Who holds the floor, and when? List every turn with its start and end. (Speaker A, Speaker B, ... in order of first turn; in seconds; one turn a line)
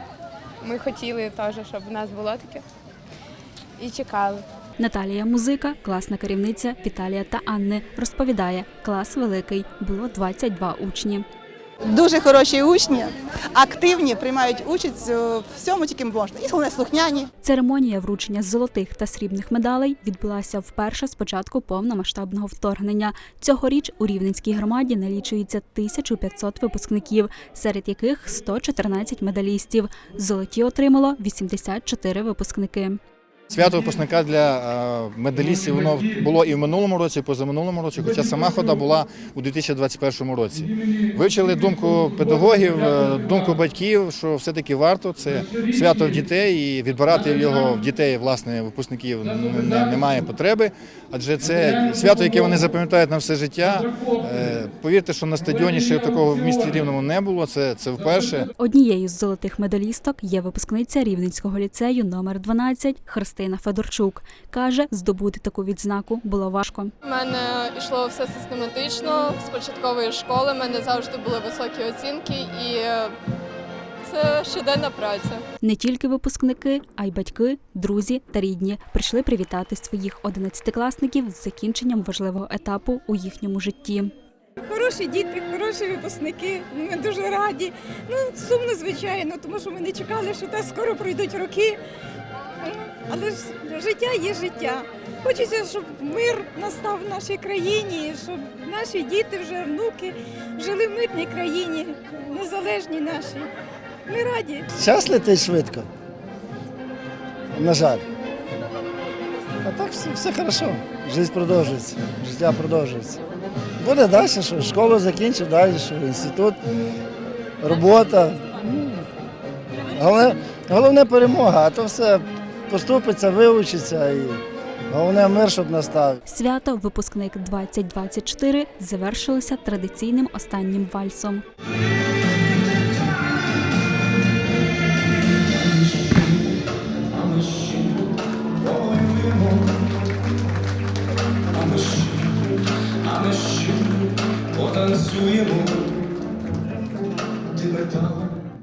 Speaker A: 0.6-2.6
Speaker A: 3.8-4.4
Speaker B: 4.8-11.2
Speaker C: 11.8-17.3
Speaker B: 17.4-33.0
Speaker D: 33.5-58.5
Speaker B: 58.6-66.9
Speaker E: 67.0-73.1
Speaker E: 74.0-75.4
Speaker B: 75.6-84.1
Speaker F: 84.6-91.8
Speaker F: 92.6-103.5
Speaker F: 104.1-104.7
Speaker G: 104.7-105.9
Speaker G: 107.5-108.0
Speaker G: 109.6-113.2
Speaker G: 113.8-116.6
Speaker G: 117.6-119.0
Speaker G: 119.9-126.2
Speaker B: 126.3-131.4
Speaker H: 135.9-136.2
Speaker H: 137.2-137.9
Speaker H: 138.6-139.6
Speaker H: 141.5-142.3
Speaker H: 143.1-143.8
Speaker H: 144.6-145.7
Speaker H: 147.6-148.2